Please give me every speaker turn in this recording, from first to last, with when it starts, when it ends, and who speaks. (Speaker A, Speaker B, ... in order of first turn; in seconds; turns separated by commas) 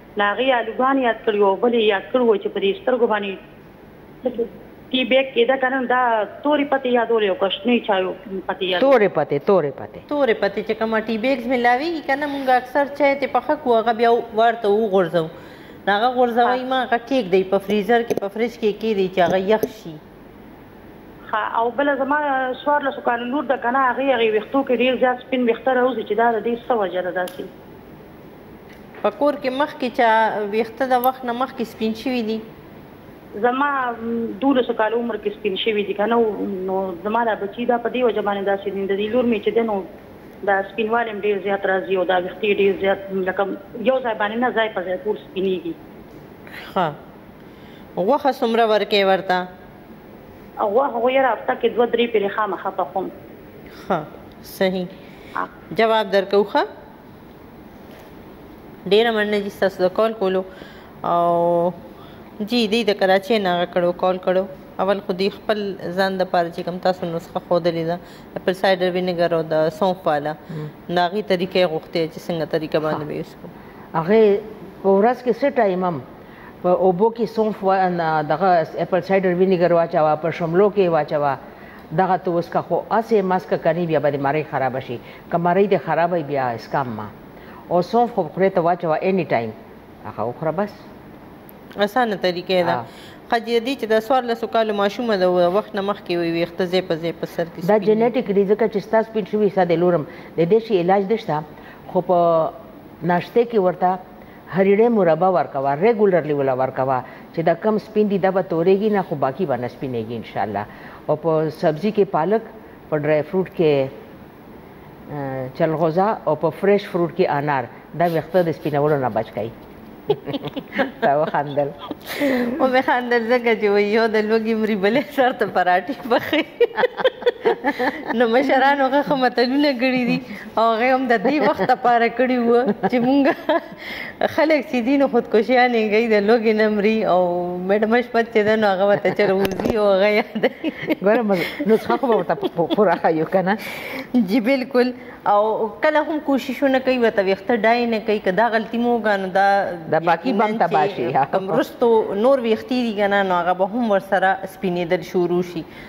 Speaker A: 0.2-3.4, Speaker A: 4.2-9.0, Speaker B: 8.8-10.1, Speaker C: 10.1-15.3, Speaker C: 15.9-20.0, Speaker A: 21.3-27.5, Speaker C: 29.0-32.4, Speaker A: 33.4-39.9, Speaker A: 40.4-45.8, Speaker C: 46.5-47.0, Speaker C: 48.0-49.5, Speaker A: 50.6-53.1, Speaker C: 53.8-54.9, Speaker C: 55.7-56.7, Speaker C: 58.9-60.5, Speaker C: 61.0-61.8, Speaker C: 62.4-70.4, Speaker C: 70.9-73.5, Speaker B: 74.0-76.0, Speaker B: 76.6-81.4, Speaker B: 81.9-87.1, Speaker B: 87.7-89.5, Speaker B: 90.1-90.8, Speaker C: 91.8-98.1, Speaker B: 97.6-104.0, Speaker B: 104.5-113.9, Speaker B: 115.1-119.5, Speaker B: 120.1-121.8, Speaker C: 122.1-141.0, Speaker B: 141.0-143.6, Speaker C: 141.6-142.0, Speaker C: 144.2-155.7, Speaker B: 149.9-151.6